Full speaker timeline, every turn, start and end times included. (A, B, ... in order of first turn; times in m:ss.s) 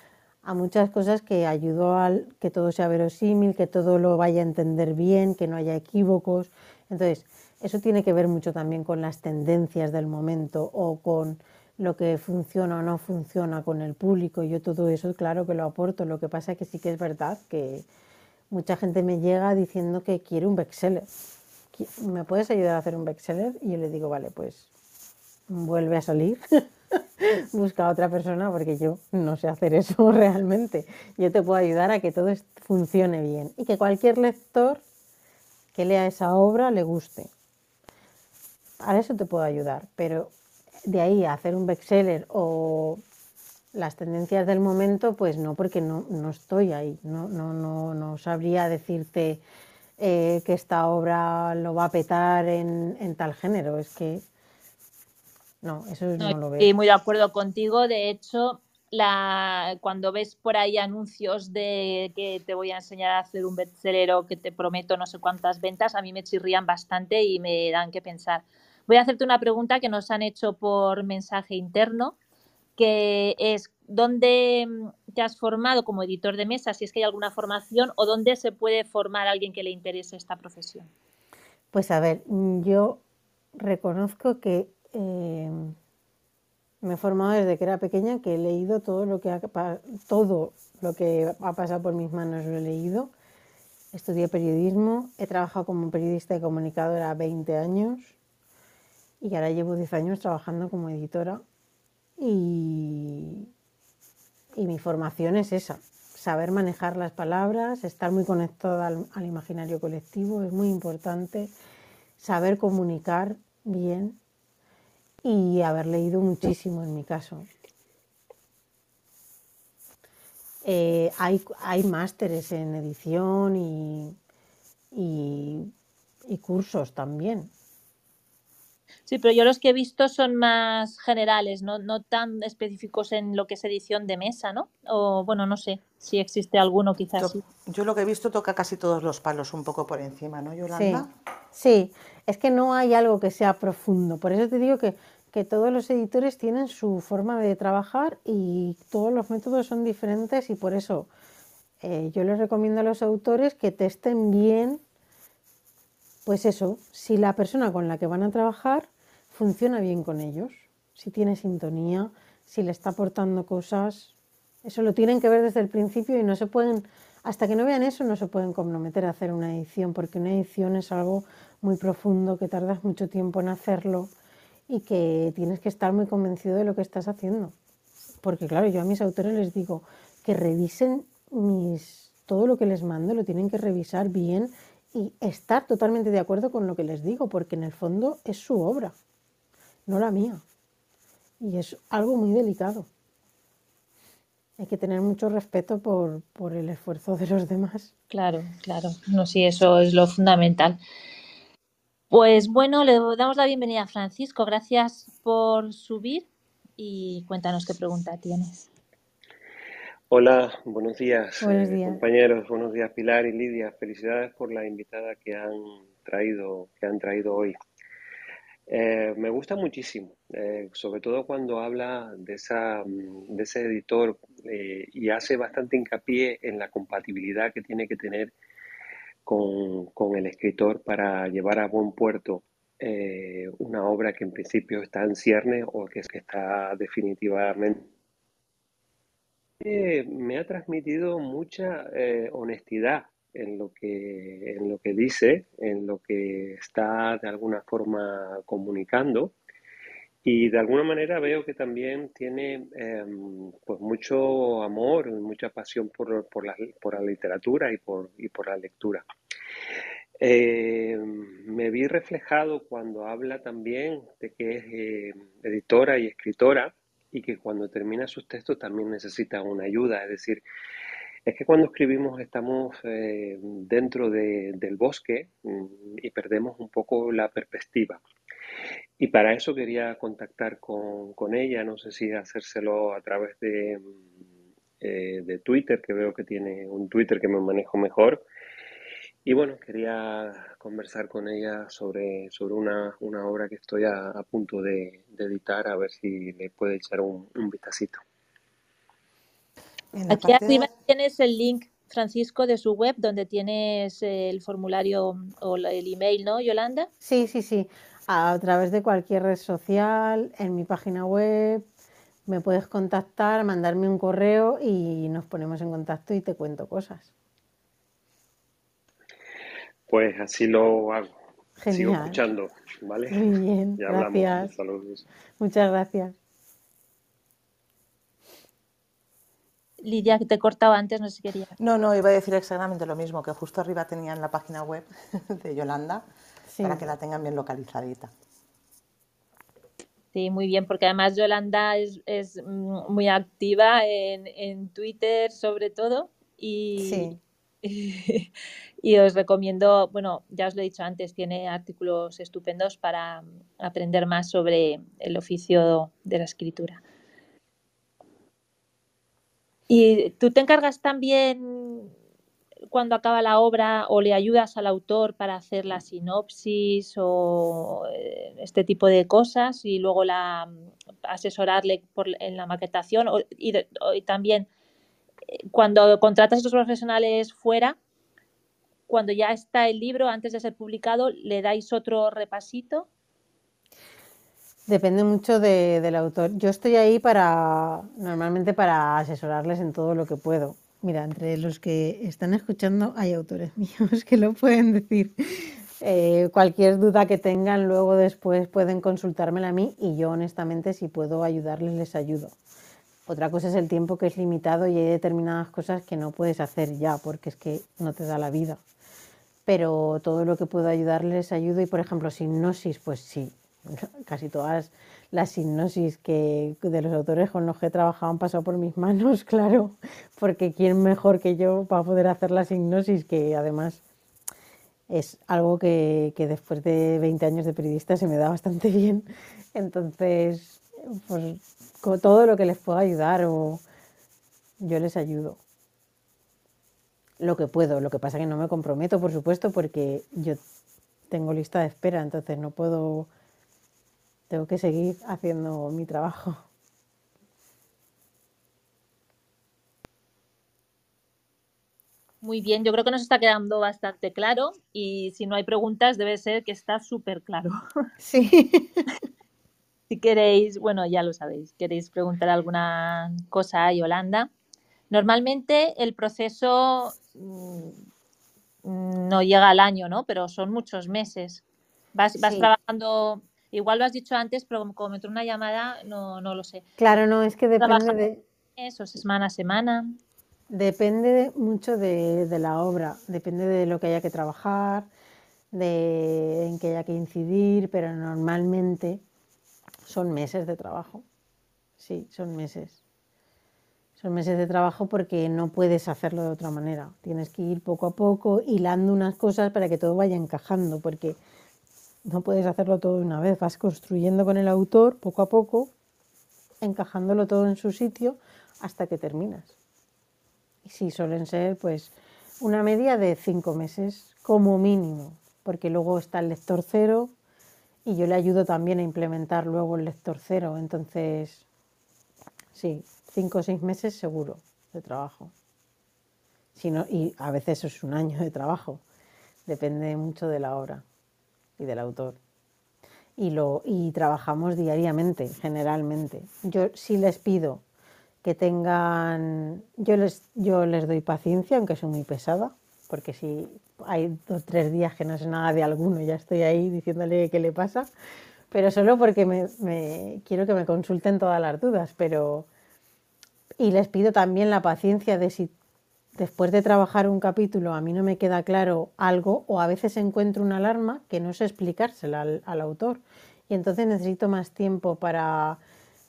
0:00.4-0:17.9 A
0:18.5-0:21.1 A
0:21.7-0:24.7 A
0:25.5-0:34.8 A
0:35.7-0:37.3 A
0:38.8-0:40.3 A
0:40.8-0:43.0 A
0:43.7-0:49.4 A
0:50.0-0:54.2 A
0:55.6-0:56.7 A
0:56.2-1:12.2 B
1:12.8-1:20.9 B
1:21.7-1:23.0 A
1:23.6-1:25.8 A
1:26.8-1:33.1 A
1:33.9-1:38.1 A
1:39.2-1:41.4 A
1:42.2-1:43.5 A
1:44.6-1:51.5 A
1:52.2-1:54.2 A
1:55.2-1:57.5 A
2:00.6-2:04.2 A
2:04.9-2:05.7 A
2:06.3-2:07.5 A
2:09.1-2:17.4 B
2:17.2-2:21.1 C
2:20.7-2:31.1 A
2:31.8-2:34.8 A
2:36.2-2:54.1 A
2:54.7-2:57.6 A
2:58.2-3:08.9 A
3:09.9-3:10.4 A
3:11.4-3:12.9 A
3:14.6-3:17.9 A
3:18.1-3:20.8 B
3:22.1-3:26.3 B
3:26.8-3:28.7 B
3:30.1-3:37.6 D
3:31.4-3:32.0 A
3:38.7-3:48.3 D
3:49.2-3:57.9 D
3:59.6-4:09.4 D
4:10.2-4:19.0 D
4:20.2-4:30.4 D
4:31.3-4:38.0 D
4:39.0-4:44.0 D
4:44.8-4:48.2 D
4:49.2-4:58.0 D
4:59.9-5:00.7 C
5:00.1-5:06.9 B
5:07.0-5:11.6 A
5:12.3-5:17.1 A
5:19.9-5:21.1 D
5:21.6-5:22.2 A
5:21.7-5:25.1 D
5:23.1-5:24.5 A
5:25.4-5:26.2 A
5:29.8-5:31.5 B
5:31.6-5:36.0 C
5:36.5-5:36.9 A
5:36.6-5:38.1 C
5:40.1-5:48.3 B
5:46.8-5:47.2 A
5:48.8-5:56.8 B
5:59.7-6:01.9 B
6:02.7-6:10.5 B
6:11.0-6:14.5 B
6:15.5-6:17.8 B
6:18.9-6:22.9 B
6:24.7-6:42.4 A
6:43.1-6:48.6 A
6:49.4-7:03.8 A
7:04.9-7:13.6 A
7:14.6-7:15.4 A
7:17.2-7:20.4 A
7:21.1-7:23.1 A
7:24.3-7:26.4 A
7:32.2-7:37.6 B
7:38.0-7:38.8 A
7:39.9-7:44.3 B
7:44.9-7:47.8 B
7:48.6-7:51.4 B
7:52.0-7:56.6 B
7:52.2-7:52.5 A
7:56.8-7:58.2 A
7:57.6-7:58.0 B
7:58.6-8:00.0 B
8:00.5-8:04.9 A
8:05.5-8:09.0 A
8:09.8-8:11.0 A
8:11.8-8:12.8 A
8:14.0-8:21.2 A
8:22.0-8:25.7 A
8:26.6-8:29.5 A
8:30.6-8:37.1 A
8:37.8-8:41.4 A
8:42.5-8:45.3 A
8:46.6-8:48.8 A
8:49.4-8:50.8 A
8:51.6-8:52.2 A
8:53.2-8:57.6 A
8:58.2-9:07.9 A
9:08.5-9:12.5 A
9:13.6-9:15.5 A
9:16.2-9:25.6 A